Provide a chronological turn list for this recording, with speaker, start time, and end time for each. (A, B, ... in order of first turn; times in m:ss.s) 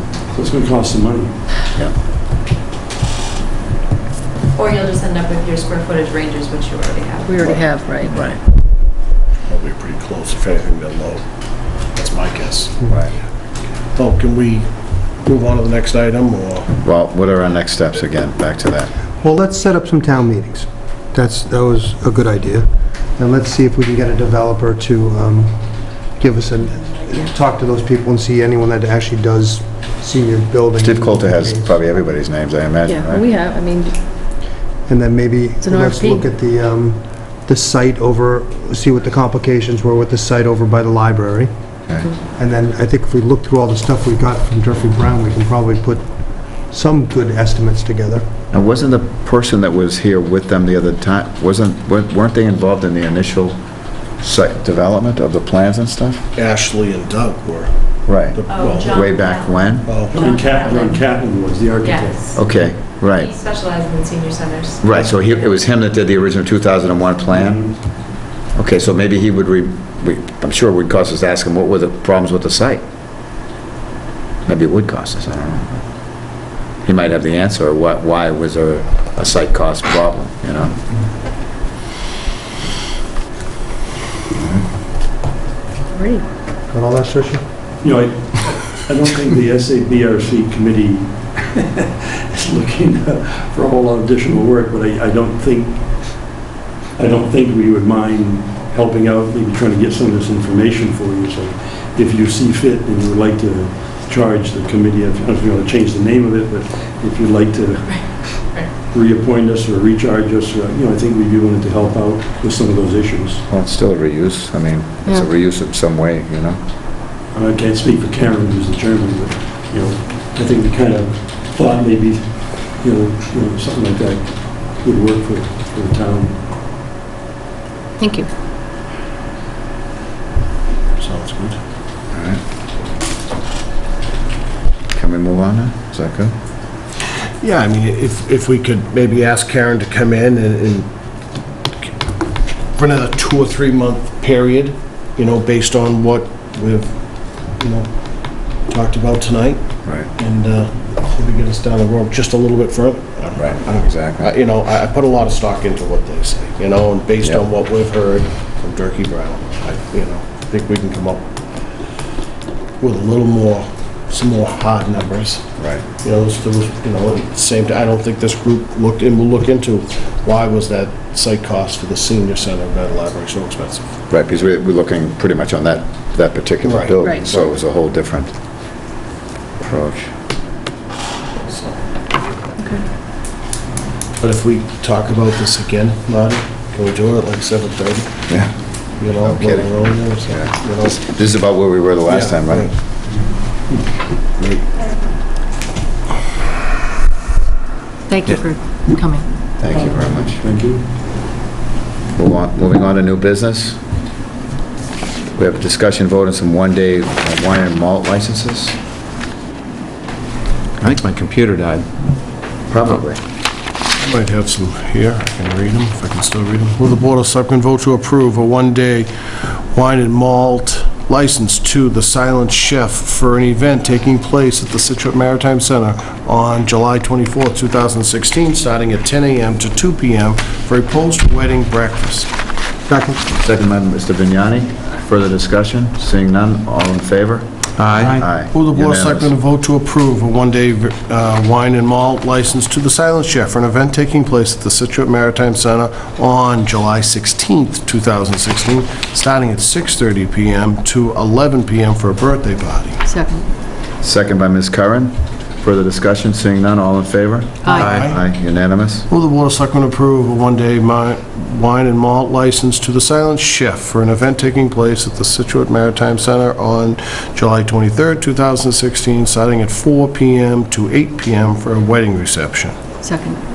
0:00.2-0:01.4 A
0:04.5-0:07.7 B
0:07.2-0:08.2 C
0:08.1-0:08.4 D
0:09.5-0:11.2 E
0:11.9-0:12.8 E
0:13.9-0:14.7 E
0:15.2-0:16.7 E
0:16.8-0:18.9 D
0:19.2-0:25.5 F
0:26.2-0:31.8 F
0:30.8-0:33.2 D
0:32.9-0:34.0 C
0:34.9-0:41.5 F
0:35.6-0:36.3 C
0:42.4-0:46.0 F
0:46.7-0:48.2 F
0:48.5-0:53.6 D
0:54.2-0:56.2 D
0:56.4-0:59.0 E
0:58.1-0:59.9 D
0:58.5-1:01.0 B
0:59.8-1:00.1 E
1:00.1-1:02.4 A
1:01.8-1:02.4 B
1:02.4-1:03.3 D
1:03.1-1:04.8 B
1:04.8-1:07.6 D
1:07.3-1:07.8 A
1:08.6-1:12.8 D
1:14.4-1:15.8 D
1:16.8-1:20.7 D
1:24.3-1:24.6 D
1:25.9-1:26.2 C
1:26.7-1:27.4 F
1:27.8-1:35.8 A
1:37.0-1:48.2 A
1:47.9-1:48.7 B
1:48.9-1:53.4 A
1:53.5-1:56.6 D
1:57.3-2:06.4 A
2:08.0-2:08.3 C
2:11.0-2:11.6 E
2:12.1-2:12.4 D
2:14.9-2:16.3 D
2:17.4-2:20.9 E
2:22.8-2:26.9 E
2:27.6-2:27.9 E
2:28.7-2:29.6 E
2:29.8-2:30.1 D
2:30.2-2:41.2 E
2:33.3-2:34.3 D
2:42.8-2:53.8 E
2:45.6-2:45.8 D
2:54.1-2:58.3 D
2:56.6-2:57.5 E
2:59.6-3:00.1 D
3:01.5-3:01.8 E
3:02.6-3:02.8 C
3:04.2-3:08.2 E
3:08.3-3:08.5 D
3:09.0-3:11.0 E
3:09.2-3:12.7 D
3:12.0-3:12.7 E
3:14.4-3:14.6 E
3:18.1-3:19.2 C
3:19.6-3:20.4 D
3:19.7-3:20.8 A
3:22.1-3:23.8 D
3:25.3-3:28.8 D
3:30.8-3:31.8 G
3:32.7-3:33.2 D
3:34.0-3:39.1 E
3:39.7-3:52.3 E
3:52.9-3:53.1 F
3:53.3-3:59.3 D
3:57.8-3:58.2 G
3:58.3-4:13.0 E
4:13.0-4:13.4 C
4:14.0-4:19.0 D
4:17.6-4:17.9 C
4:17.8-4:18.1 G
4:17.8-4:18.2 E
4:19.1-4:32.8 E
4:33.0-4:33.4 C